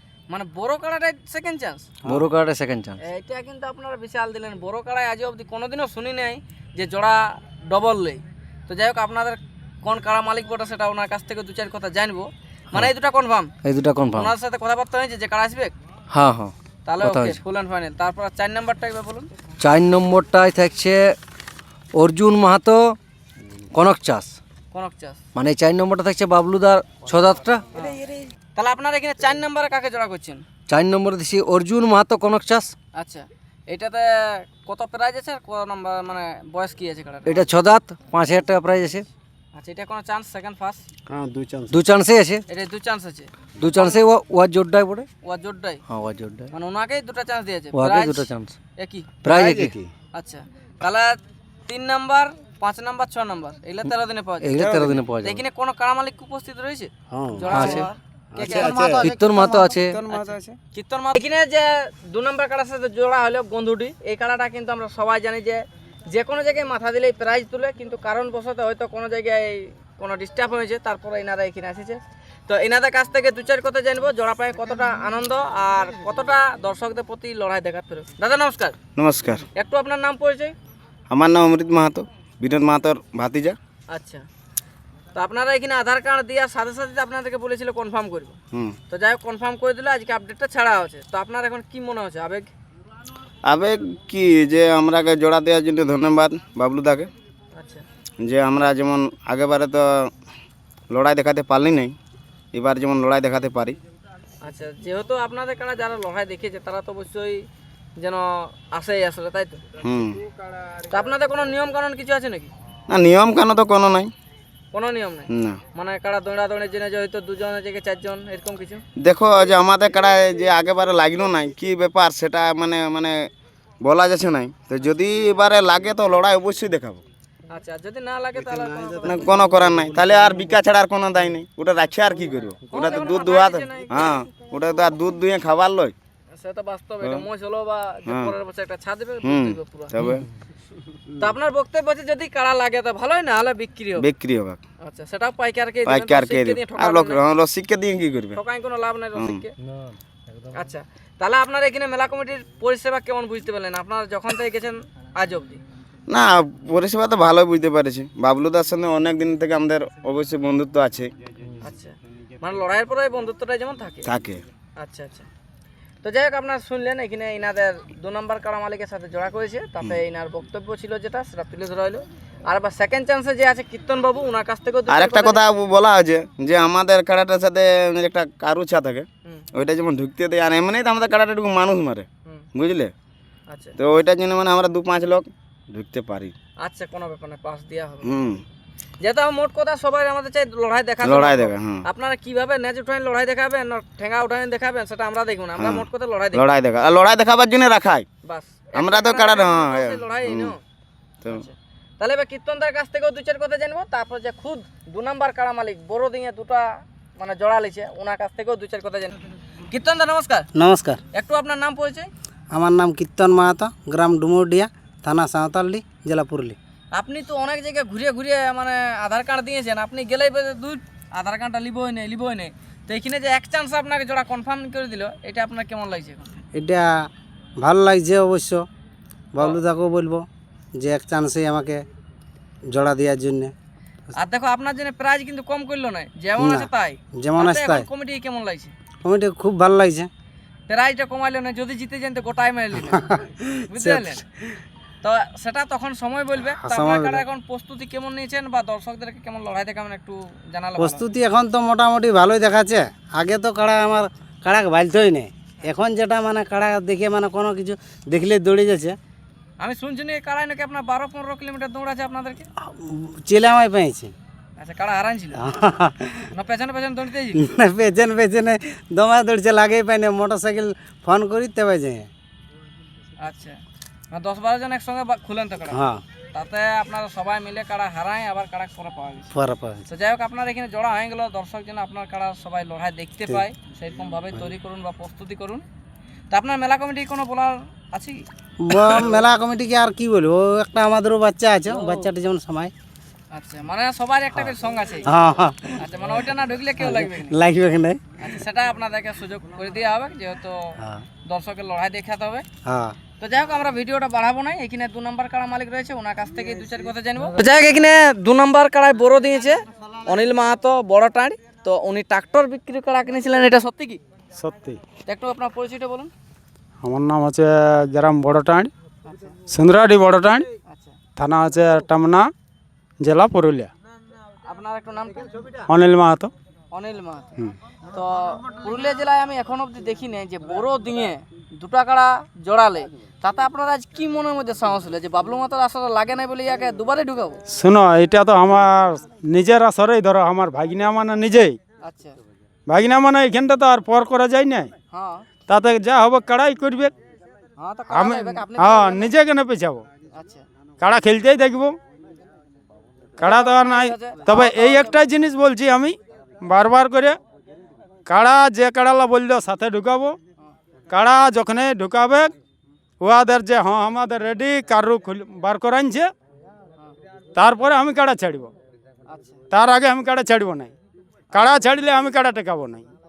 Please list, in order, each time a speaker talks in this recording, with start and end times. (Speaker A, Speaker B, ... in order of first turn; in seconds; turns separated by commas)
Speaker A: 0.3-1.9, Speaker B: 2.0-3.0, Speaker A: 3.0-13.5, Speaker B: 13.6-14.3, Speaker A: 14.1-15.7, Speaker B: 16.1-17.4, Speaker A: 16.9-19.3, Speaker B: 19.6-21.1, Speaker B: 21.9-23.0, Speaker B: 23.7-24.4, Speaker A: 24.7-25.2, Speaker B: 25.3-27.6, Speaker A: 27.7-30.4, Speaker B: 30.7-32.7, Speaker A: 32.9-37.4, Speaker B: 37.2-39.0, Speaker A: 39.5-40.8, Speaker C: 41.1-41.8, Speaker B: 41.7-42.4, Speaker A: 42.5-44.0, Speaker B: 43.6-45.1, Speaker A: 45.2-45.8, Speaker B: 45.9-46.5, Speaker A: 46.5-49.2, Speaker B: 47.7-48.6, Speaker B: 49.2-49.7, Speaker C: 49.3-49.9, Speaker A: 50.1-54.6, Speaker B: 54.4-55.4, Speaker D: 54.6-54.9, Speaker A: 55.2-58.9, Speaker C: 57.1-57.6, Speaker B: 57.5-57.9, Speaker C: 58.3-59.1, Speaker D: 58.4-60.4, Speaker B: 58.9-60.0, Speaker A: 60.1-78.8, Speaker E: 79.0-79.5, Speaker A: 79.5-80.5, Speaker E: 81.1-83.5, Speaker A: 83.9-84.2, Speaker A: 85.1-88.3, Speaker A: 88.9-92.5, Speaker E: 93.4-97.1, Speaker A: 97.5-97.8, Speaker E: 98.2-100.1, Speaker E: 100.9-102.0, Speaker E: 102.5-103.8, Speaker A: 104.4-107.4, Speaker A: 108.0-109.6, Speaker E: 109.8-110.2, Speaker A: 110.8-112.5, Speaker E: 112.9-114.1, Speaker A: 114.7-118.8, Speaker E: 115.3-115.6, Speaker E: 119.0-123.3, Speaker E: 123.8-127.0, Speaker A: 127.5-129.5, Speaker E: 129.0-135.9, Speaker A: 132.7-134.1, Speaker A: 136.3-139.9, Speaker E: 138.1-138.3, Speaker E: 139.2-140.2, Speaker A: 141.1-144.1, Speaker E: 144.0-144.6, Speaker A: 144.8-147.2, Speaker E: 145.8-148.4, Speaker A: 148.3-149.5, Speaker E: 149.2-149.4, Speaker A: 150.5-155.6, Speaker E: 156.1-161.1, Speaker A: 161.6-164.1, Speaker E: 164.1-164.4, Speaker A: 164.8-165.3, Speaker A: 166.0-175.4, Speaker E: 174.9-182.9, Speaker A: 183.5-183.7, Speaker E: 183.8-186.3, Speaker A: 186.6-188.2, Speaker E: 188.0-188.4, Speaker A: 189.0-196.5, Speaker E: 191.0-191.8, Speaker E: 195.6-198.1, Speaker A: 198.2-200.6, Speaker E: 198.7-200.5, Speaker A: 201.2-209.1, Speaker A: 209.7-210.5, Speaker D: 210.5-211.0, Speaker A: 211.1-212.1, Speaker D: 212.5-216.6, Speaker A: 216.9-226.4, Speaker D: 226.5-227.0, Speaker D: 227.6-228.6, Speaker D: 229.3-230.2, Speaker D: 230.8-231.8, Speaker D: 232.7-233.5, Speaker A: 234.2-238.7, Speaker D: 236.4-237.9, Speaker D: 239.0-240.1, Speaker A: 240.7-243.1, Speaker D: 242.8-244.2, Speaker A: 243.7-244.2, Speaker A: 245.0-251.0, Speaker D: 246.4-247.2, Speaker D: 250.8-258.9, Speaker A: 259.6-262.4, Speaker D: 262.9-264.1, Speaker A: 264.6-265.4, Speaker D: 265.4-266.3, Speaker A: 266.3-267.4, Speaker D: 267.3-272.1, Speaker A: 273.2-273.6, Speaker A: 274.1-275.8, Speaker D: 275.7-276.0, Speaker A: 276.3-279.3, Speaker D: 279.3-279.8, Speaker A: 279.9-285.6, Speaker A: 286.3-288.2, Speaker D: 288.6-292.7, Speaker A: 291.7-292.1, Speaker A: 293.3-295.1, Speaker D: 295.1-295.8, Speaker A: 295.8-297.3, Speaker D: 296.8-298.3, Speaker A: 298.2-300.7, Speaker A: 301.3-302.4, Speaker D: 302.6-302.9, Speaker A: 303.2-314.0, Speaker F: 314.4-314.8, Speaker A: 315.1-316.1, Speaker F: 316.8-318.7, Speaker A: 319.0-319.4, Speaker F: 319.5-320.4, Speaker A: 320.6-320.9, Speaker F: 321.2-322.3, Speaker F: 323.0-323.7, Speaker A: 324.4-325.6, Speaker F: 325.7-326.3, Speaker A: 326.7-327.3, Speaker A: 327.9-337.4, Speaker F: 337.5-341.6, Speaker A: 341.8-342.1, Speaker F: 342.7-344.7, Speaker A: 344.9-345.2, Speaker F: 345.5-346.9, Speaker A: 347.6-349.1, Speaker F: 347.9-349.9, Speaker A: 350.1-350.4, Speaker F: 350.8-351.8, Speaker A: 353.2-355.1, Speaker F: 353.2-357.2, Speaker F: 358.1-360.2, Speaker F: 360.9-362.3, Speaker F: 363.0-366.1, Speaker F: 367.3-368.5, Speaker A: 369.1-369.4, Speaker F: 369.5-370.7, Speaker F: 371.3-372.8